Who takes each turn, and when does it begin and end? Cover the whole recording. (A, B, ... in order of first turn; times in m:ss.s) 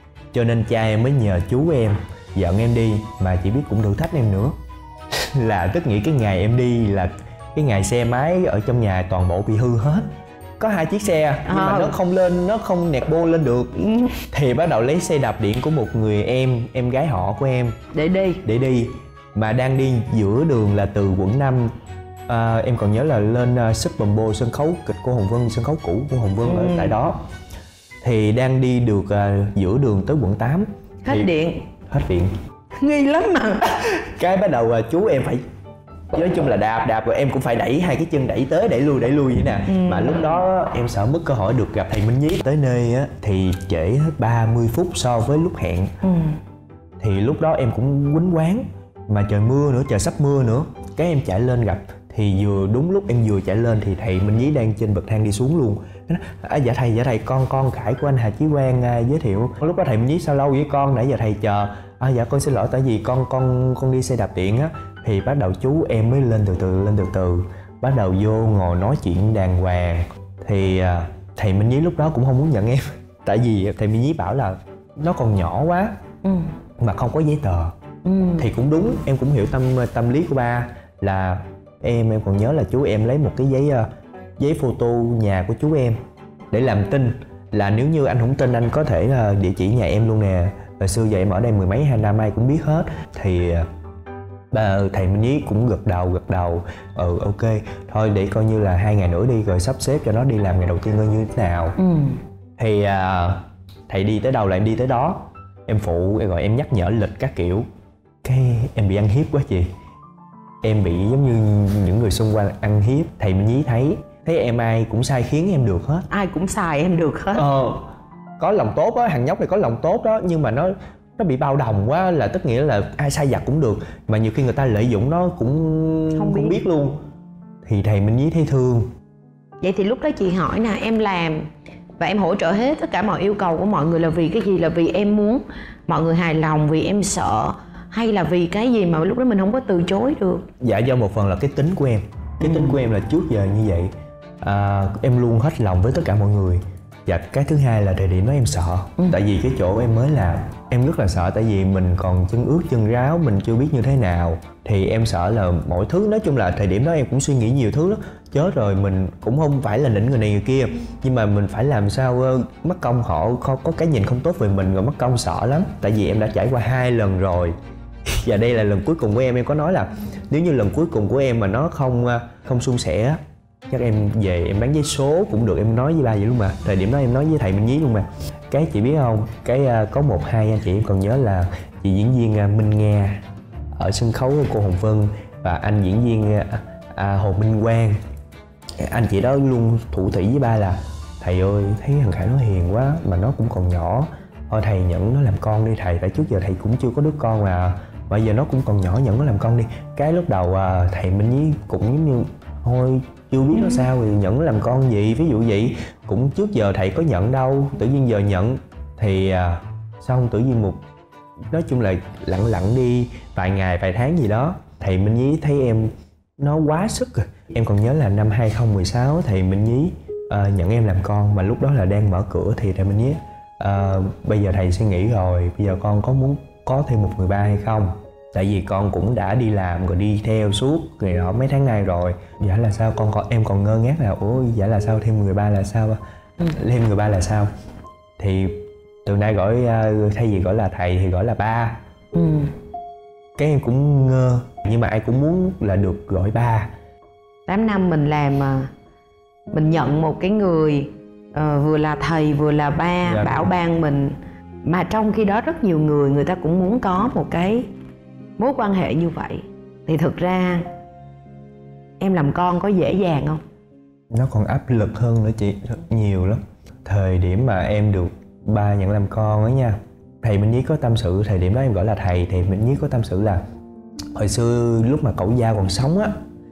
0:00.3-0:04.6 A
0:05.2-0:10.1 A
0:10.6-0:13.8 A
0:11.5-0:12.0 B
0:13.8-0:14.2 B
0:14.3-0:17.8 A
0:17.9-0:18.4 B
0:18.4-0:21.7 A
0:22.3-0:27.2 A
0:26.4-0:27.0 B
0:28.0-0:31.3 A
0:31.0-0:31.6 B
0:31.9-0:32.3 A
0:32.8-0:33.7 B
0:33.8-0:35.4 A
0:36.1-0:45.9 A
0:39.7-0:40.4 B
0:46.0-0:46.4 B
0:47.0-1:16.0 A
1:16.2-1:16.5 B
1:16.8-1:17.8 A
1:18.0-1:18.5 B
1:18.4-1:26.0 A
1:26.5-1:33.7 A
1:34.5-1:41.8 A
1:41.8-1:42.2 B
1:42.6-1:47.7 A
1:48.2-1:49.7 A
1:50.6-1:56.1 A
1:56.1-1:57.5 B
1:57.3-1:57.9 A
1:58.4-2:07.0 A
2:06.1-2:06.6 B
2:07.6-2:08.9 A
2:09.6-2:20.5 B
2:20.6-3:08.0 A
2:22.4-2:22.8 B
3:08.8-3:30.8 A
3:31.5-3:56.0 A
3:56.5-3:57.5 A
3:58.2-4:01.8 A
4:02.1-4:02.5 B
4:03.4-4:06.7 A
4:07.5-4:08.7 B
4:09.5-4:17.7 B
4:13.0-4:13.5 A
4:18.4-4:20.7 B
4:22.0-4:23.4 B
4:24.1-4:33.4 A
4:34.1-4:36.2 A